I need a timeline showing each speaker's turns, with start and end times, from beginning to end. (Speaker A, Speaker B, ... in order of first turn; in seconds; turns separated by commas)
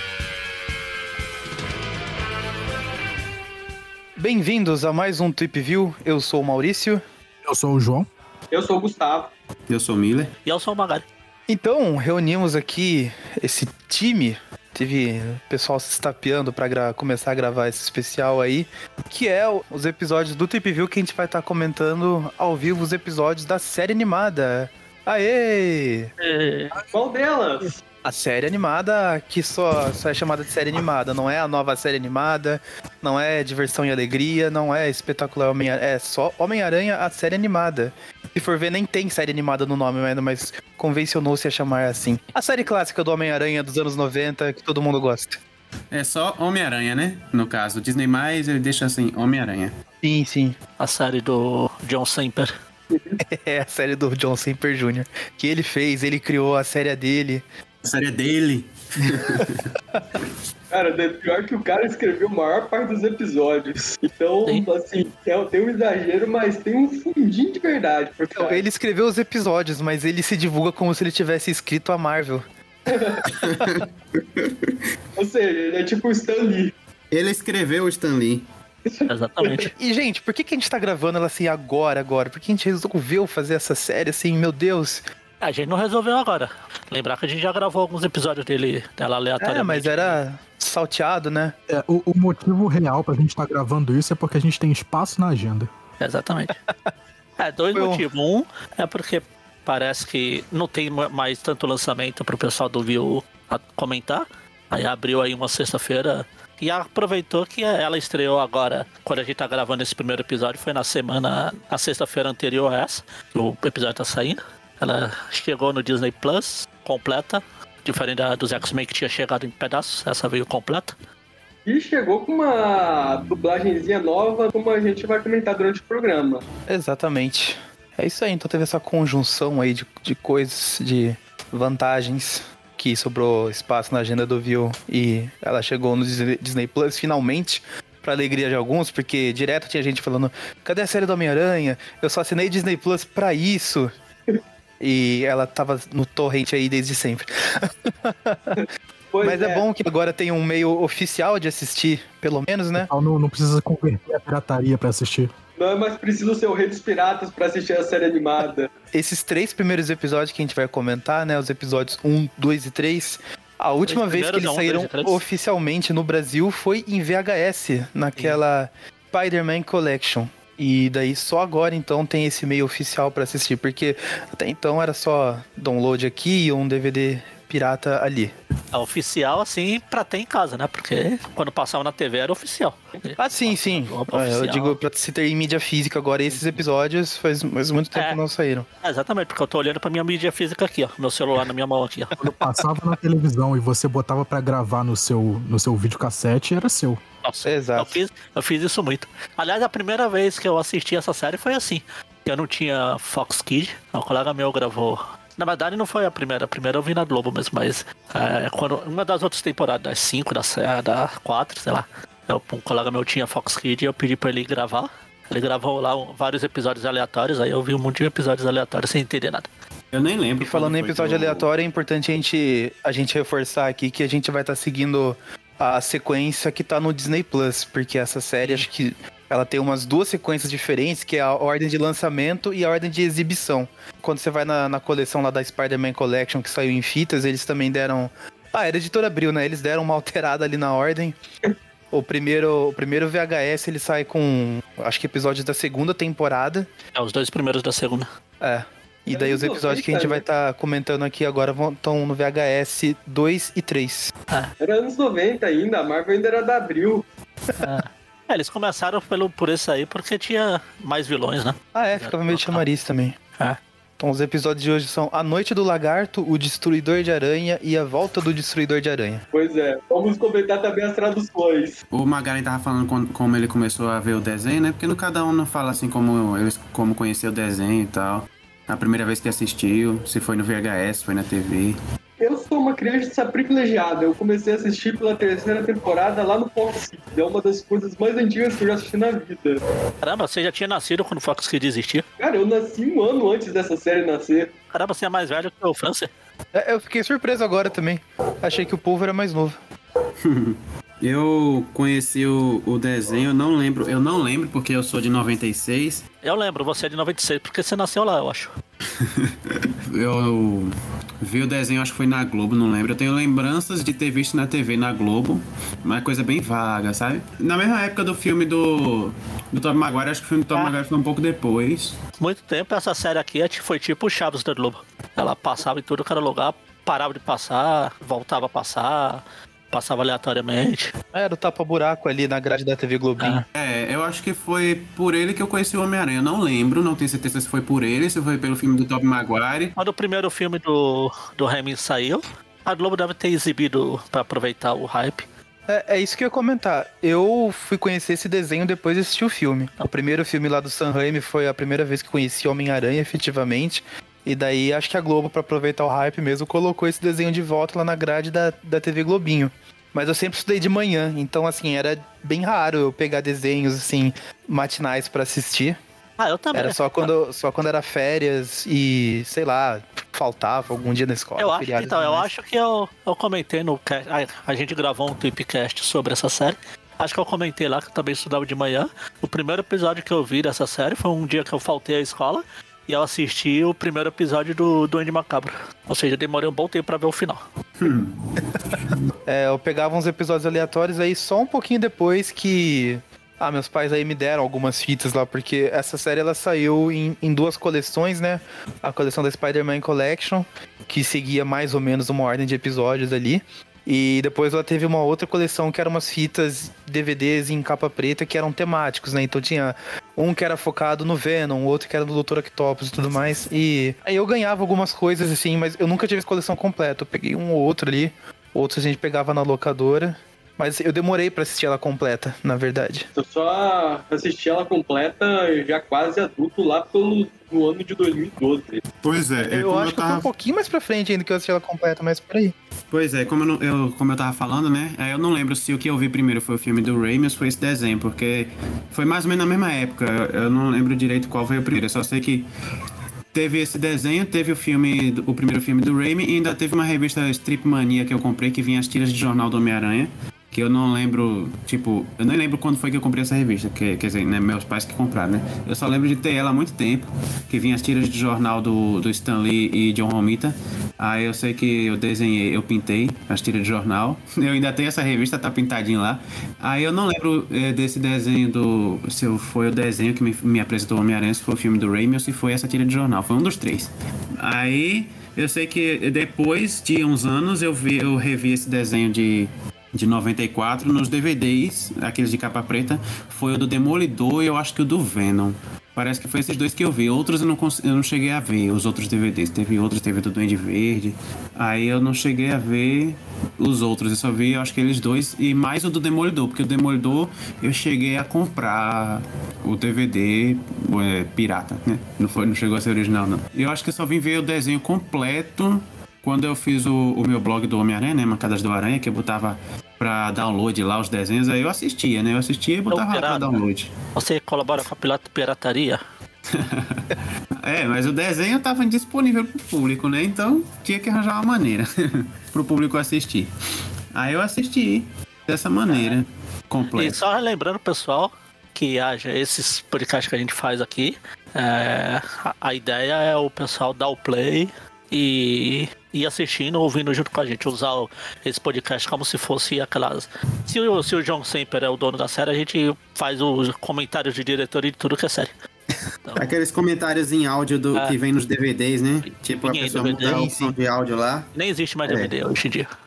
Speaker A: 4.2-7.0, Speaker B: 7.5-8.1, Speaker C: 8.5-9.3, Speaker D: 9.7-10.3, Speaker E: 10.4-11.1, Speaker A: 11.5-26.1, Speaker E: 26.2-26.7, Speaker C: 26.9-27.7, Speaker A: 28.0-45.4, Speaker D: 45.9-49.7, Speaker A: 50.0-50.6, Speaker E: 50.8-52.5, Speaker C: 52.9-53.2, Speaker A: 53.2-57.5, Speaker D: 57.8-59.7, Speaker A: 59.4-60.0, Speaker C: 60.7-68.6, Speaker A: 68.3-72.5, Speaker C: 72.9-73.2, Speaker D: 73.3-73.8, Speaker D: 74.4-74.8, Speaker C: 75.2-76.7, Speaker D: 77.1-78.4, Speaker C: 78.8-79.6, Speaker E: 79.1-79.7, Speaker A: 79.8-85.0, Speaker E: 85.4-90.2, Speaker A: 89.4-91.5, Speaker B: 91.7-95.7, Speaker E: 96.0-96.6, Speaker E: 97.4-120.9, Speaker A: 97.7-98.0, Speaker C: 121.7-126.4, Speaker A: 126.7-143.9, Speaker A: 144.8-148.6, Speaker C: 148.5-149.6, Speaker A: 149.2-152.9, Speaker B: 152.8-155.3, Speaker C: 155.6-158.7, Speaker A: 158.9-178.3, Speaker E: 163.8-165.2, Speaker E: 178.7-184.8, Speaker A: 183.2-188.7, Speaker E: 187.9-188.2, Speaker E: 188.8-192.3, Speaker B: 192.4-197.0, Speaker E: 197.2-219.5, Speaker A: 197.4-198.0, Speaker D: 219.9-221.5, Speaker A: 220.4-241.2, Speaker A: 241.9-246.7, Speaker E: 246.9-248.1, Speaker A: 248.4-254.1, Speaker C: 249.1-250.2, Speaker C: 254.6-257.1, Speaker E: 257.6-262.6, Speaker A: 261.7-263.2, Speaker A: 264.0-269.2, Speaker C: 269.3-271.8, Speaker D: 271.9-281.8, Speaker C: 282.2-289.6, Speaker E: 290.0-292.0, Speaker C: 292.2-294.5, Speaker E: 294.7-296.1, Speaker A: 296.5-299.6, Speaker D: 300.2-306.0, Speaker E: 306.2-308.5, Speaker D: 309.0-322.0, Speaker E: 322.2-330.9, Speaker A: 331.1-333.4, Speaker D: 333.5-339.7, Speaker E: 339.8-345.2, Speaker A: 345.7-365.8, Speaker E: 366.2-367.1, Speaker A: 366.5-372.3, Speaker E: 371.4-387.4, Speaker D: 387.8-388.2, Speaker A: 389.2-423.1, Speaker C: 423.1-428.8, Speaker D: 429.0-430.3, Speaker A: 429.4-432.6, Speaker D: 432.9-442.5, Speaker D: 443.3-513.9, Speaker E: 512.9-513.6, Speaker E: 514.1-516.0, Speaker D: 516.5-523.5, Speaker D: 524.1-527.2, Speaker E: 527.0-545.5, Speaker D: 546.4-551.5, Speaker E: 549.2-550.5, Speaker A: 550.2-550.7, Speaker E: 551.5-552.9, Speaker D: 552.1-552.3